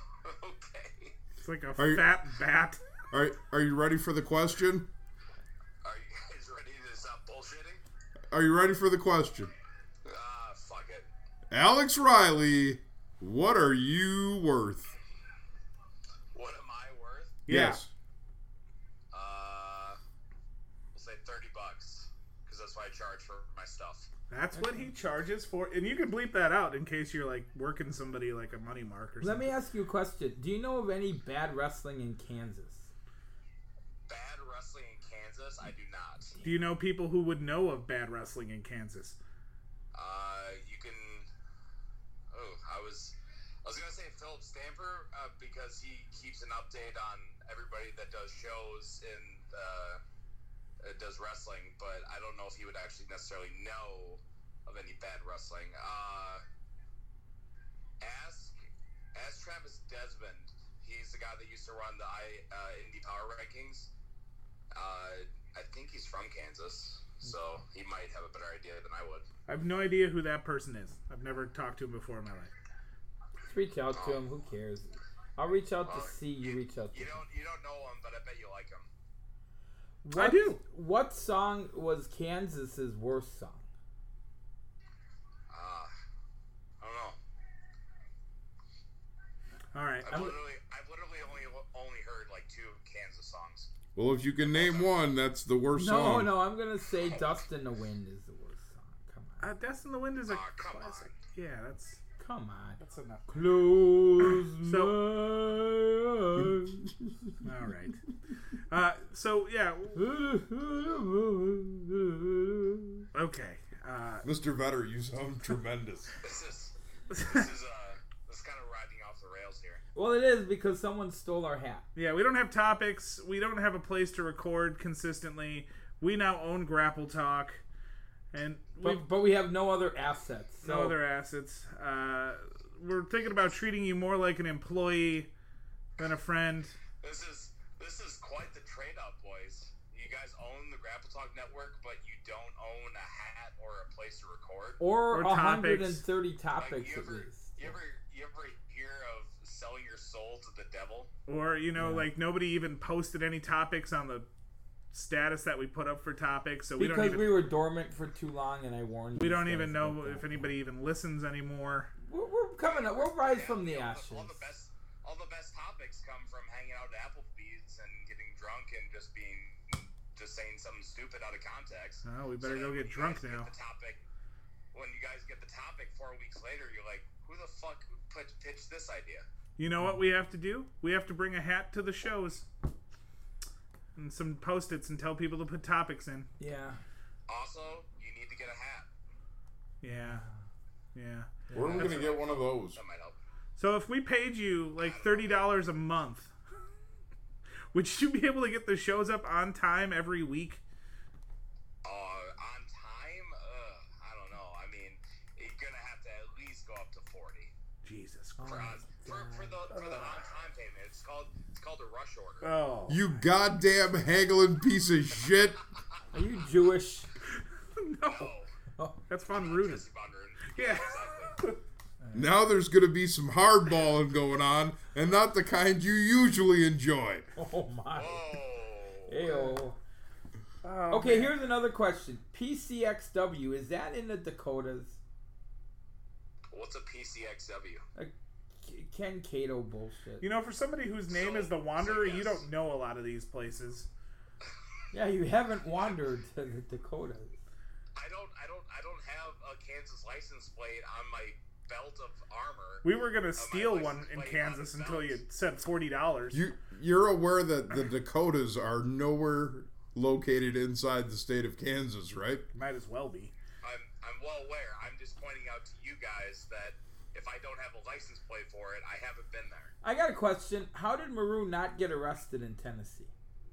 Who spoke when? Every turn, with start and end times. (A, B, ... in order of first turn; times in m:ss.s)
0:00.2-0:01.1 A
0:01.4-0:02.8 B
0:01.8-0:02.1 C
0:03.1-0:04.9 C
0:05.8-0:07.8 A
0:08.3-0:09.5 C
0:10.0-0:11.1 A
0:11.5-0:14.9 C
0:16.3-0:17.4 A
0:17.4-0:17.8 B
0:17.5-0:17.9 C
0:19.1-0:20.0 A
0:20.9-0:24.1 A
0:24.3-0:29.5 B
0:24.6-0:24.8 D
0:29.2-0:32.9 D
0:34.1-0:36.3 A
0:36.4-0:39.2 B
0:39.9-0:41.3 A
0:42.3-0:50.0 A
0:50.8-0:56.4 A
0:58.0-0:58.6 A
0:59.1-1:03.9 A
1:04.7-1:09.3 A
1:09.5-1:12.5 B
1:13.4-1:17.2 D
1:13.9-1:14.2 A
1:15.8-1:18.9 A
1:20.0-1:23.7 D
1:20.1-1:20.6 B
1:25.5-1:25.9 A
1:26.8-1:27.2 A
1:29.7-1:30.4 B
1:30.0-1:33.7 A
1:33.9-1:36.4 C
1:34.4-1:34.9 A
1:35.8-1:39.5 D
1:37.0-1:37.4 A
1:39.4-1:42.0 B
1:40.3-1:41.1 A
1:42.2-1:46.9 D
1:42.8-1:43.4 B
1:44.6-1:45.0 B
1:47.4-1:48.0 B
1:48.7-1:50.0 B
1:49.9-1:53.1 D
1:53.1-1:54.2 B
1:54.2-1:56.1 C
1:56.2-1:59.8 A
1:57.1-1:57.5 B
1:59.9-2:01.9 D
2:01.9-2:07.6 B
2:08.3-2:09.0 B
2:08.8-2:11.0 D
2:10.6-2:15.3 B
2:16.0-2:16.8 B
2:17.0-2:24.8 A
2:24.8-2:27.7 D
2:25.1-2:26.0 B
2:26.6-2:31.1 A
2:31.3-2:34.3 B
2:31.8-2:32.1 D
2:34.9-2:37.4 B
2:36.8-2:40.5 D
2:39.2-2:41.9 B
2:42.0-2:44.4 D
2:42.6-2:54.0 A
2:52.0-2:53.5 B
2:54.7-2:59.3 A
2:59.6-3:02.5 B
3:03.9-3:06.3 B
3:06.4-3:06.8 D
3:07.3-3:08.9 A
3:09.8-3:10.2 B
3:09.9-3:10.4 D
3:10.9-3:12.0 B
3:11.5-3:11.9 D
3:11.6-3:12.8 C
3:11.8-3:13.2 A
3:13.6-3:16.3 B
3:14.8-3:15.6 A
3:17.7-3:20.6 B
3:21.8-3:27.5 A
3:27.8-3:28.9 B
3:28.4-3:29.6 D
3:28.4-3:32.5 A
3:29.7-3:30.2 B
3:32.4-3:33.2 B
3:32.9-3:35.6 C
3:36.1-3:37.1 D
3:37.8-3:38.3 B
3:38.0-3:38.5 A
3:39.1-3:39.9 B
3:39.3-3:41.4 A
3:40.5-3:41.6 B
3:42.0-3:42.3 D
3:42.1-3:47.3 C
3:47.4-3:48.4 D
3:47.9-3:49.4 A
3:49.1-3:49.8 D
3:50.6-3:51.4 B
3:50.9-3:55.0 D
3:56.5-3:57.8 A
3:58.0-4:00.3 D
4:00.2-4:03.9 B
4:01.1-4:02.4 A
4:04.9-4:07.4 D
4:08.0-4:12.8 A
4:12.8-4:16.4 B
4:13.4-4:15.2 A
4:16.3-4:22.4 C
4:22.5-4:23.3 B
4:23.6-4:29.7 A
4:29.8-4:33.1 D